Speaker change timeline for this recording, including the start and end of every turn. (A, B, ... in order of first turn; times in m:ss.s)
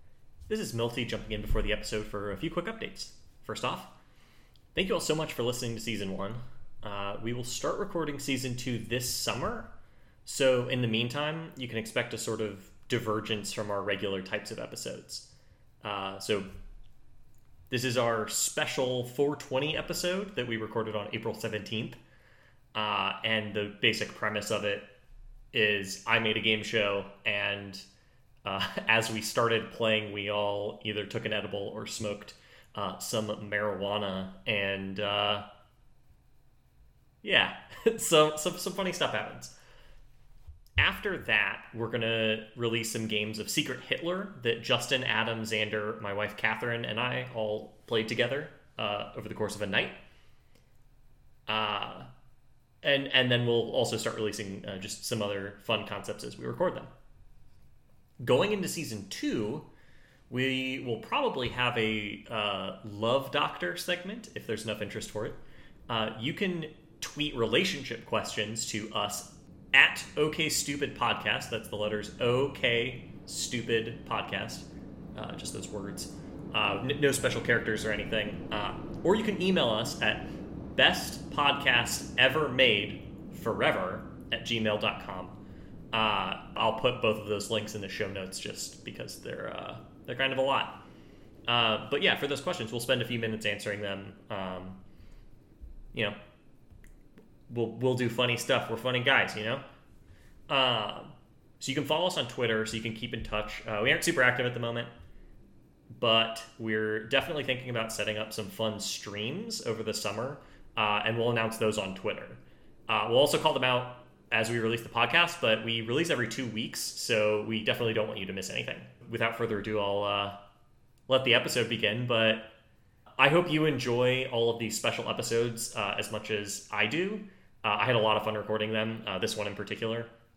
0:00.5-0:03.9 A
0:04.7-0:09.7 A
0:10.2-0:15.3 A
0:15.8-0:16.5 A
0:17.7-0:22.0 A
0:22.7-0:24.9 A
0:25.5-0:27.8 A
0:28.4-0:35.4 A
0:37.2-0:39.5 A
0:40.8-0:50.0 A
0:51.5-0:52.1 A
0:52.8-0:56.9 A
0:58.2-0:59.7 A
1:00.3-1:25.4 A
1:25.9-1:30.8 A
1:31.5-1:34.8 A
1:37.5-1:39.6 A
1:40.5-1:44.9 A
1:46.0-2:00.4 A
2:01.1-2:02.5 A
2:03.2-2:10.1 A